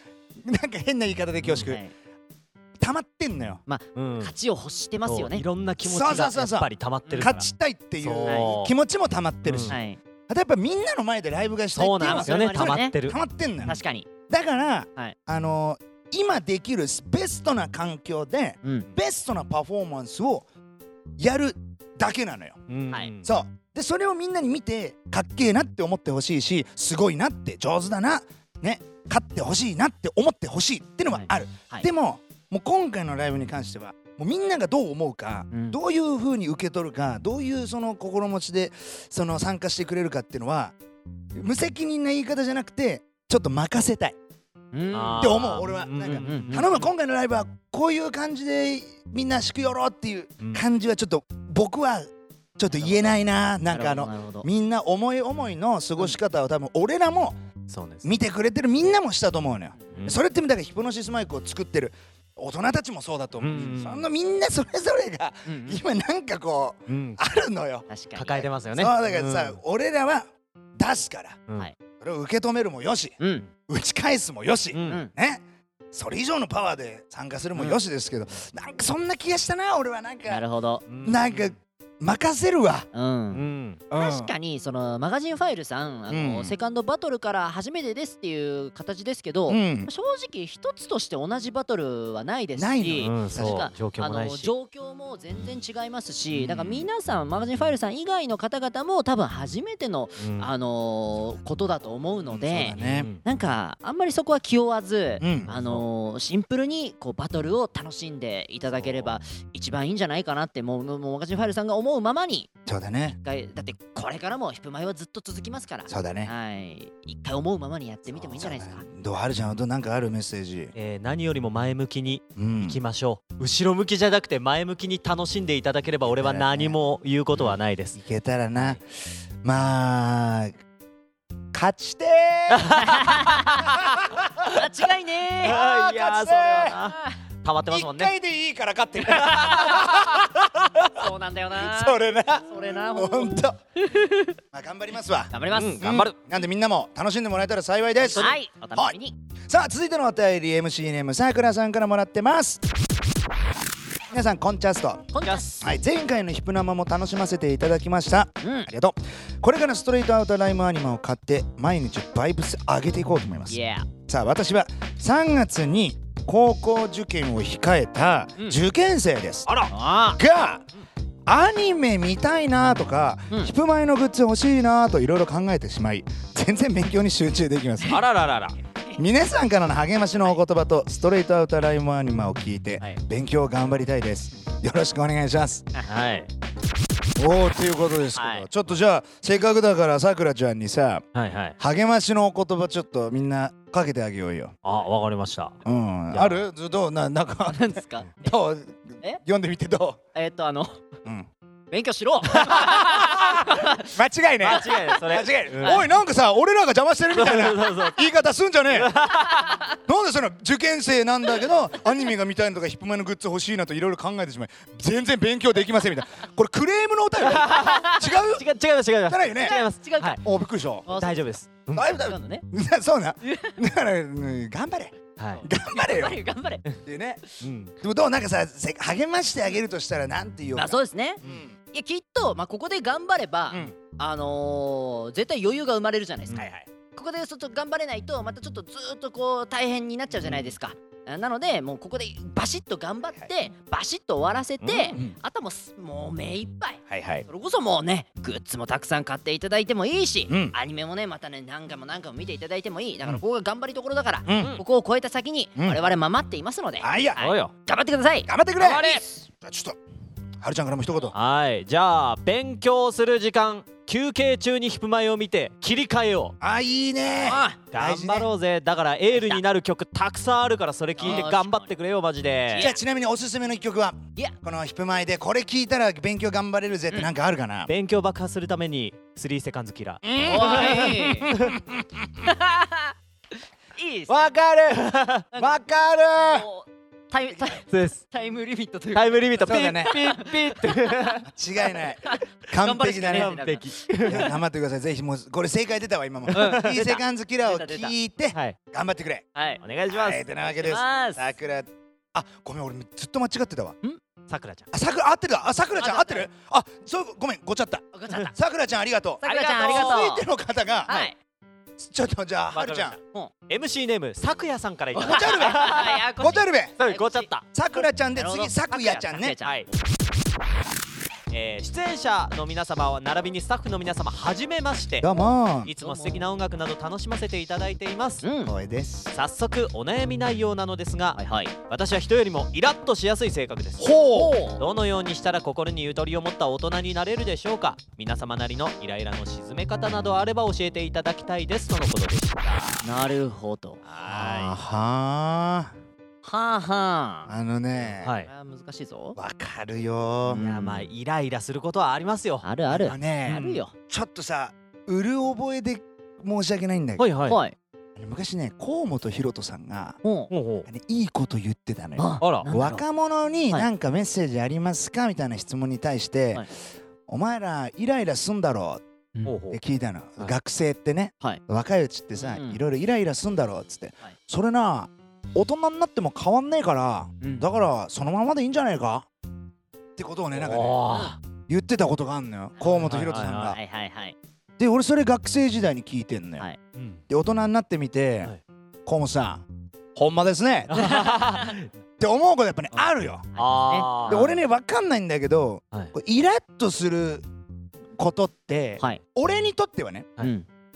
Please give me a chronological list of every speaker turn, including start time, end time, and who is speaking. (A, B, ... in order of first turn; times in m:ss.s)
0:00.4-0:01.8 A
0:01.4-0:01.7 B
0:01.6-0:01.9 C
0:02.8-0:03.6 A
0:03.7-0:05.4 C
0:04.0-0:04.3 B
0:05.1-0:07.5 B
0:05.8-0:20.4 A
0:08.0-0:08.7 B
0:08.2-0:08.5 C
0:09.4-0:09.8 B
0:09.7-0:10.0 C
0:11.8-0:13.8 B
0:12.0-0:12.9 C
0:13.6-0:14.1 C
0:18.6-0:18.9 C
0:21.2-0:22.6 A
0:22.7-0:23.3 B
0:23.2-0:40.7 A
0:31.1-0:31.9 C
0:35.5-0:35.8 C
0:41.3-0:44.2 A
0:44.7-0:45.4 C
0:44.9-0:46.9 B
0:45.2-0:57.4 A
0:46.1-0:46.6 C
0:53.7-0:54.5 C
0:57.7-0:58.1 B
0:58.0-1:11.4 A
1:03.4-1:04.0 B
1:05.5-1:05.8 C
1:06.9-1:07.2 B
1:07.9-1:08.4 C
1:08.2-1:09.6 B
1:12.0-1:15.4 A
1:13.2-1:13.5 C
1:14.7-1:15.0 B
1:15.9-1:20.4 A
1:20.3-1:20.8 C
1:20.9-1:21.5 B
1:21.0-1:22.9 A
1:22.9-1:52.5 C
1:23.3-1:23.8 B
1:23.9-1:24.3 A
1:26.1-1:26.5 A
1:29.5-1:29.9 A
1:32.6-1:33.7 A
1:33.0-1:34.5 B
1:36.3-1:36.8 B
1:40.2-1:40.5 B
1:42.3-1:43.1 A
1:42.8-1:43.2 B
1:45.2-1:45.6 A
1:52.6-1:53.2 A
1:53.2-1:58.8 C
1:55.9-1:56.3 A
1:58.1-2:00.7 A
2:00.8-2:08.0 B
2:02.4-2:02.8 A
2:06.1-2:06.8 A
2:08.0-2:08.8 A
2:09.4-2:10.6 A
2:11.5-2:12.9 A
2:12.5-2:14.0 B
2:12.8-2:13.6 C
2:13.6-2:14.5 A
2:14.4-2:15.6 C
2:15.4-2:16.8 A
2:15.4-2:18.1 B
2:16.8-2:17.2 C
2:17.7-2:23.6 A
2:19.2-2:20.2 B
2:19.2-2:20.0 C
2:20.9-2:24.4 C
2:24.5-2:29.0 A
2:25.3-2:26.0 C
2:25.5-2:26.1 B
2:28.0-2:29.1 C
2:29.5-2:32.6 A
2:34.1-2:49.5 A
2:35.1-2:35.7 C
2:35.2-2:35.6 B
2:38.4-2:38.7 C
2:43.5-2:43.9 C
2:49.7-2:50.2 C
2:50.1-2:50.6 A
2:51.2-2:58.0 A
2:57.9-2:58.6 B
2:59.0-3:05.6 A
3:05.9-3:06.3 B
3:07.2-3:11.0 A
3:08.2-3:08.4 C
3:11.1-3:11.6 B
3:11.6-3:14.5 A
3:14.6-3:15.6 B
3:15.6-3:20.0 A
3:16.1-3:16.4 B
3:17.5-3:18.3 C
3:20.1-3:20.8 C
3:21.7-3:23.9 C
3:22.3-3:29.0 A
3:24.4-3:25.9 B
3:24.5-3:24.8 C
3:25.6-3:25.9 C
3:27.1-3:28.0 B
3:28.7-3:29.6 B
3:29.3-3:29.6 C
3:29.8-3:38.5 A
3:37.2-3:40.2 B
3:37.4-3:38.0 C
3:39.1-3:39.6 A
3:39.4-3:40.2 C
3:40.2-3:40.9 A
3:40.9-3:41.2 C
3:40.9-3:41.9 B
3:41.8-3:46.2 A
3:42.0-3:42.4 C
3:43.2-3:43.6 C
3:45.2-3:45.4 B
3:45.4-3:46.6 C
3:46.8-3:47.2 A
3:47.4-3:47.7 B
3:47.8-3:51.5 A
3:50.6-3:51.2 C
3:51.7-3:56.4 C
3:56.3-3:56.7 A
3:56.9-4:19.1 C
4:04.6-4:05.0 B
4:06.9-4:07.2 A
4:10.3-4:10.6 A
4:14.2-4:14.6 A
4:16.8-4:17.2 A
4:17.2-4:17.5 B
4:18.3-4:19.8 A
4:18.6-4:19.0 B
4:20.4-4:21.1 A
4:21.1-4:26.4 B
4:26.4-4:28.3 A
4:27.2-4:27.6 C
4:27.7-4:32.7 B
4:29.1-4:29.4 C
4:31.0-4:31.7 C
4:31.0-4:31.3 A
4:32.5-4:32.8 C
4:32.6-4:37.7 A
4:37.7-4:41.6 B
4:40.0-4:42.3 A
4:40.2-4:41.3 C
4:42.2-4:42.9 C
4:43.8-4:44.2 C
4:44.1-4:46.5 A
4:44.7-4:45.2 B
4:45.3-4:45.6 C
4:46.2-4:54.3 C
4:47.7-4:48.0 B
4:48.9-4:51.2 B
4:49.5-4:50.0 A
4:51.2-4:53.4 A
4:53.1-4:54.3 B
4:54.0-4:59.2 A
4:56.3-4:56.8 B
4:56.3-4:57.9 C
4:59.4-4:59.6 C
4:59.6-5:00.2 B
4:59.9-5:03.8 A
5:00.6-5:01.2 C
5:04.3-5:04.7 B
5:04.7-5:11.1 A
5:05.8-5:06.3 C
5:07.9-5:08.3 C
5:09.2-5:10.2 C
5:09.2-5:10.0 B
5:10.9-5:11.1 C
5:11.8-5:13.0 A
5:12.5-5:13.0 B
5:13.5-5:16.0 B
5:15.0-5:17.3 C
5:15.0-5:16.8 A
5:16.8-5:17.4 B
5:17.5-5:19.4 A
5:18.2-5:19.7 C
5:21.3-5:25.1 B
5:25.0-5:25.7 A
5:25.6-5:28.2 B
5:25.8-5:26.2 C
5:28.2-5:28.5 C
5:28.4-5:29.1 A
5:29.1-5:33.9 B
5:31.1-5:31.5 C
5:33.8-5:34.4 A
5:34.1-5:34.6 C
5:34.5-5:42.8 B
5:42.8-5:44.5 C
5:43.9-5:44.6 B
5:44.0-5:45.7 A
5:46.2-5:47.3 C
5:47.3-5:48.1 A
5:48.0-5:48.3 B
5:48.3-5:49.2 C
5:49.2-5:50.4 A
5:50.3-5:50.9 C
5:50.4-5:52.4 B
5:52.4-5:53.7 C
5:52.7-5:57.1 A
5:53.3-5:53.6 B
5:57.0-5:57.4 B
5:57.3-5:57.6 C
5:58.0-6:00.0 A
6:00.0-6:00.3 C
6:00.3-6:00.7 B
6:00.6-6:06.5 A
6:02.0-6:02.8 C
6:02.2-6:02.5 B
6:07.1-6:08.8 A
6:09.3-6:09.6 B
6:09.5-6:19.1 A
6:12.2-6:12.6 C
6:20.0-6:23.6 A
6:20.3-6:21.2 B
6:20.9-6:21.1 C
6:22.7-6:23.6 B
6:23.2-6:24.1 C
6:24.6-6:26.4 A
6:26.8-6:27.0 B
6:27.1-6:28.3 A
6:28.9-6:29.4 A
6:30.0-6:30.8 A
6:30.7-6:31.7 B
6:30.8-6:31.5 C
6:32.0-6:33.3 A
6:33.4-6:34.4 C
6:33.4-6:34.3 B
6:34.1-6:37.3 A
6:38.0-6:40.1 A
6:40.2-6:40.4 C